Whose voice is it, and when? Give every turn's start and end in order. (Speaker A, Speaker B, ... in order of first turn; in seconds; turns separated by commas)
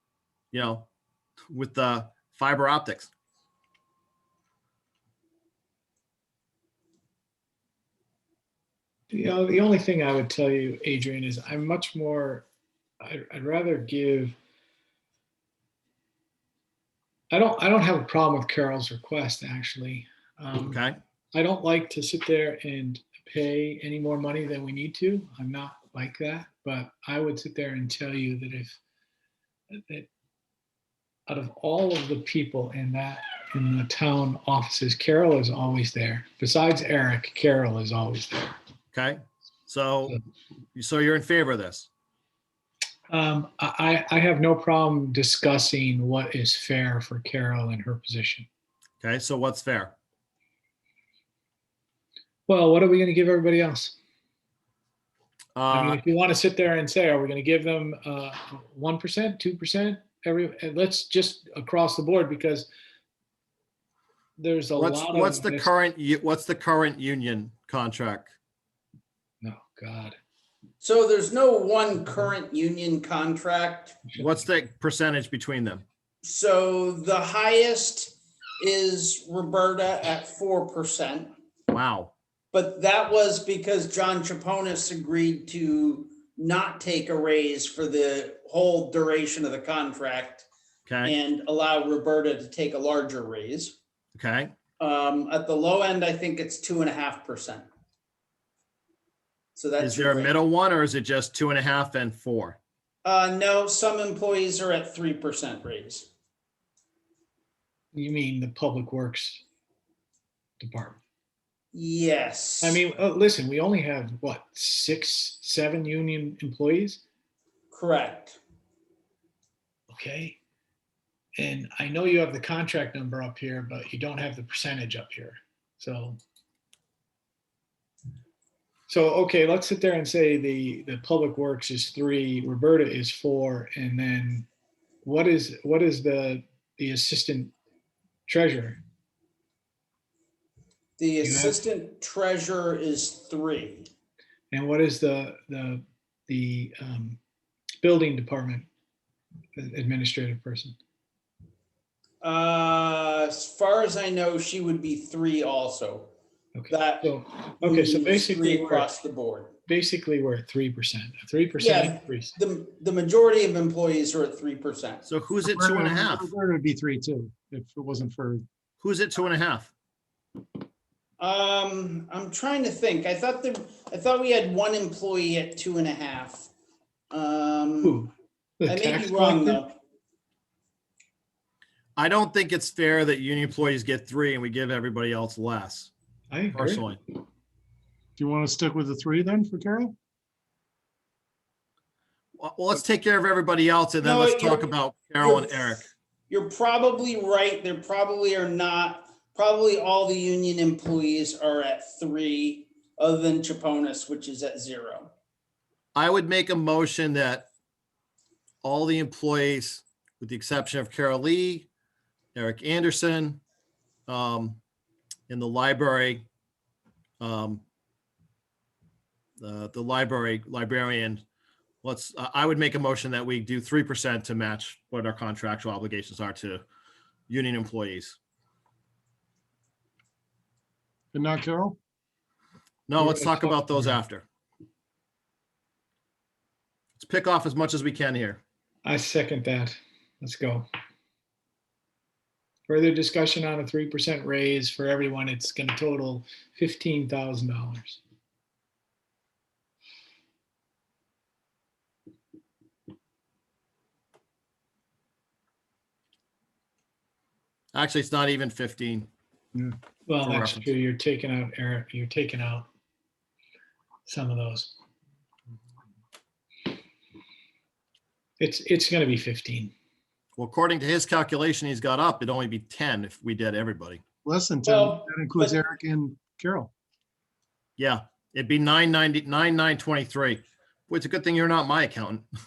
Speaker A: 0.5-0.9, Speaker A: 1.5-3.1, Speaker B: 9.1-12.5, Speaker B: 13.0-14.4, Speaker B: 17.3-20.8, Speaker A: 20.6-21.0, Speaker B: 21.3-28.8, Speaker B: 29.7-30.1, Speaker B: 31.3-38.6, Speaker A: 38.9-40.2, Speaker A: 40.7-41.9, Speaker B: 43.1-48.5, Speaker A: 49.0-49.9, Speaker B: 52.5-54.0, Speaker A: 55.5-56.0, Speaker B: 55.7-62.7, Speaker B: 64.4-65.7, Speaker A: 64.8-68.3, Speaker B: 69.4-70.1, Speaker C: 70.8-74.0, Speaker A: 74.1-75.8, Speaker C: 76.2-81.3, Speaker A: 81.7-82.1, Speaker C: 82.5-90.5, Speaker A: 90.8-91.1, Speaker C: 91.0-93.8, Speaker A: 94.1-94.5, Speaker C: 94.8-97.7, Speaker C: 99.5-100.3, Speaker A: 99.8-102.6, Speaker C: 103.0-106.1, Speaker B: 107.9-109.4, Speaker B: 110.6-111.0, Speaker C: 111.7-112.8, Speaker B: 112.6-117.0, Speaker C: 117.7-118.4, Speaker B: 119.9-120.4, Speaker B: 121.4-126.2, Speaker B: 128.9-134.4, Speaker B: 135.0-137.5, Speaker B: 138.3-138.8, Speaker C: 141.0-143.9, Speaker B: 141.2-141.6, Speaker B: 144.5-147.2, Speaker B: 147.8-148.7, Speaker B: 149.6-150.8, Speaker C: 152.2-156.1, Speaker B: 156.6-158.9, Speaker C: 156.7-159.5, Speaker B: 159.7-162.3, Speaker C: 161.6-165.0, Speaker A: 165.1-166.3, Speaker D: 165.4-168.4, Speaker A: 168.8-169.7, Speaker C: 171.2-176.5, Speaker C: 177.1-178.0, Speaker B: 177.8-179.6, Speaker C: 178.7-179.8, Speaker A: 181.9-185.9, Speaker B: 186.3-186.8, Speaker A: 186.5-187.0, Speaker D: 188.2-189.9, Speaker A: 192.4-195.9, Speaker C: 194.0-205.1, Speaker A: 205.9-207.5, Speaker A: 208.6-211.7, Speaker A: 212.3-213.4, Speaker A: 214.1-214.6, Speaker A: 215.3-216.2, Speaker A: 217.2-217.6, Speaker A: 219.4-221.2, Speaker A: 221.8-226.6, Speaker A: 227.3-228.2, Speaker D: 231.1-231.8, Speaker A: 232.9-234.2, Speaker B: 233.0-234.0, Speaker A: 237.0-238.4, Speaker B: 238.8-240.7, Speaker B: 242.7-248.0, Speaker A: 257.7-259.1, Speaker B: 260.1-262.7, Speaker A: 260.2-260.7, Speaker B: 264.1-264.8, Speaker B: 268.4-269.7, Speaker A: 270.4-274.0, Speaker D: 274.2-276.7, Speaker C: 274.6-275.6, Speaker A: 277.8-282.2